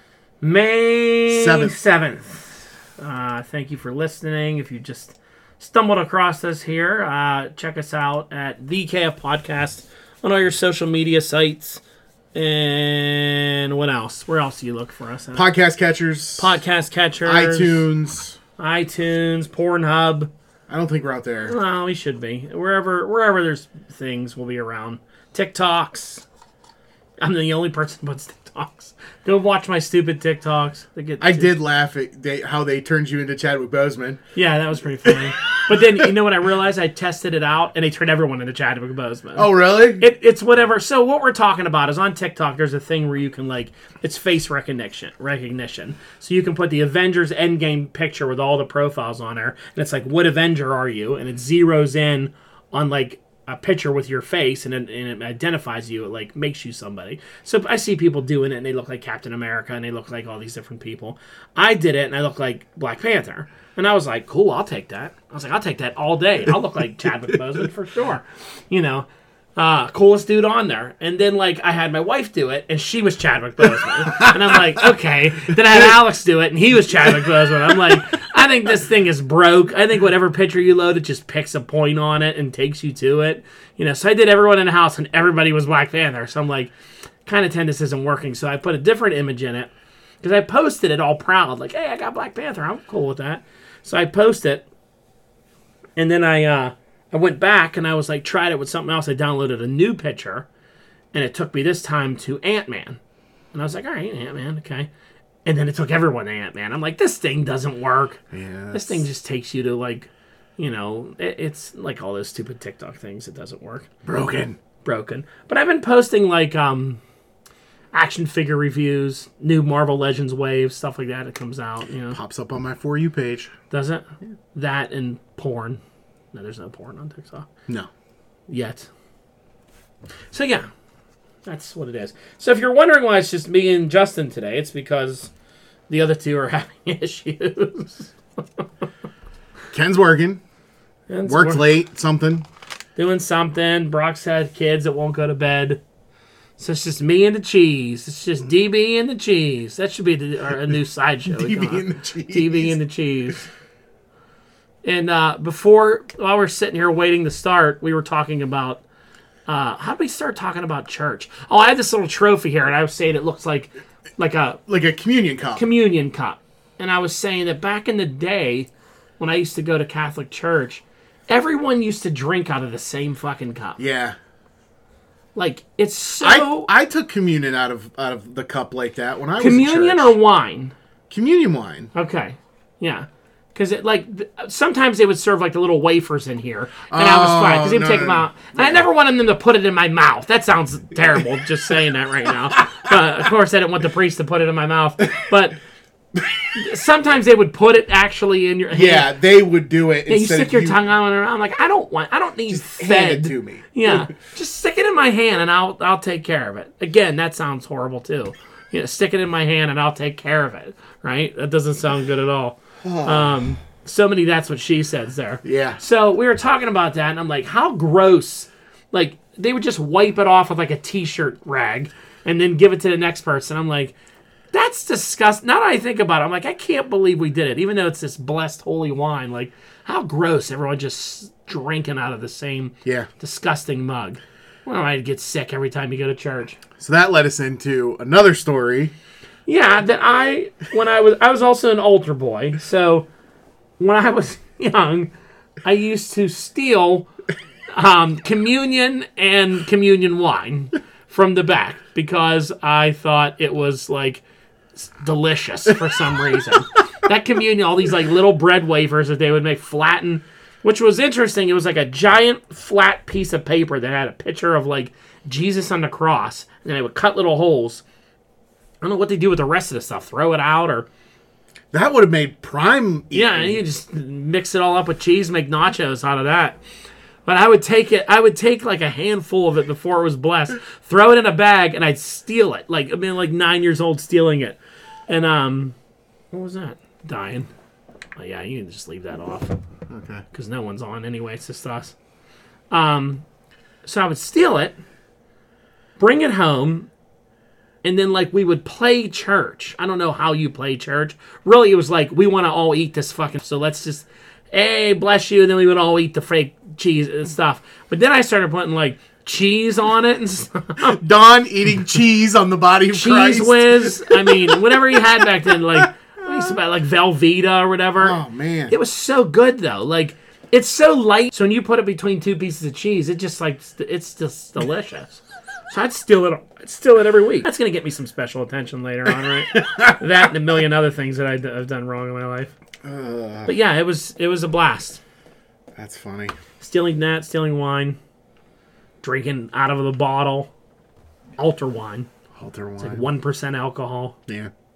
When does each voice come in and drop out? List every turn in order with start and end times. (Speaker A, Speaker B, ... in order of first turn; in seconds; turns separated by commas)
Speaker A: 0.4-11.8, Speaker B: 1.3-1.8, Speaker A: 12.3-15.5, Speaker B: 15.3-16.6, Speaker A: 16.4-17.9, Speaker B: 17.2-18.4, Speaker A: 18.6-20.3, Speaker B: 20.7-21.6, Speaker A: 21.5-26.2, Speaker A: 27.2-31.5, Speaker B: 31.2-34.2, Speaker A: 34.3-86.7, Speaker B: 39.3-40.0, Speaker B: 74.1-74.3, Speaker A: 87.2-89.7, Speaker A: 90.2-94.6, Speaker A: 96.0-100.5, Speaker A: 101.1-103.0, Speaker A: 103.5-104.9, Speaker A: 105.5-113.9, Speaker B: 108.3-109.0, Speaker B: 114.0-114.6, Speaker A: 114.8-117.0, Speaker A: 117.9-122.2, Speaker B: 122.1-123.5, Speaker A: 123.7-125.8, Speaker A: 126.3-127.5, Speaker A: 128.5-128.9, Speaker A: 130.3-130.7, Speaker A: 131.4-135.3, Speaker A: 135.9-138.7, Speaker B: 139.7-140.4, Speaker A: 141.1-141.6, Speaker B: 141.3-142.4, Speaker A: 142.9-145.8, Speaker A: 146.6-153.5, Speaker B: 151.3-152.8, Speaker A: 154.8-158.8, Speaker A: 159.5-164.6, Speaker B: 164.7-165.6, Speaker A: 165.5-168.7, Speaker A: 169.2-173.8, Speaker B: 173.8-174.2, Speaker A: 175.3-176.7, Speaker B: 176.2-180.2, Speaker A: 179.4-180.7, Speaker B: 181.1-181.9, Speaker A: 181.9-195.6, Speaker B: 186.9-188.8, Speaker A: 196.5-199.1, Speaker B: 198.7-200.8, Speaker A: 200.1-223.9, Speaker B: 202.5-204.0, Speaker B: 212.8-213.4, Speaker B: 215.4-215.8, Speaker A: 224.5-236.6, Speaker B: 236.8-238.9, Speaker A: 239.5-243.1, Speaker A: 243.8-245.1, Speaker A: 245.6-247.1, Speaker A: 247.7-254.2, Speaker A: 254.8-267.8, Speaker A: 268.8-270.9, Speaker B: 271.7-273.6, Speaker A: 273.1-276.6, Speaker A: 277.2-285.8, Speaker A: 286.3-287.5, Speaker A: 288.2-289.6, Speaker B: 289.9-290.2, Speaker A: 290.3-291.9, Speaker A: 292.7-293.2, Speaker A: 293.9-294.8, Speaker A: 296.0-296.9, Speaker A: 297.8-311.0, Speaker B: 310.9-315.8, Speaker A: 312.9-318.2, Speaker B: 318.0-318.8, Speaker A: 318.7-332.5, Speaker B: 329.5-330.0, Speaker B: 332.8-333.5, Speaker A: 333.5-335.0, Speaker B: 335.8-336.3, Speaker A: 336.6-338.0, Speaker A: 339.0-340.5, Speaker A: 341.4-342.1, Speaker B: 342.4-343.1, Speaker A: 342.8-344.2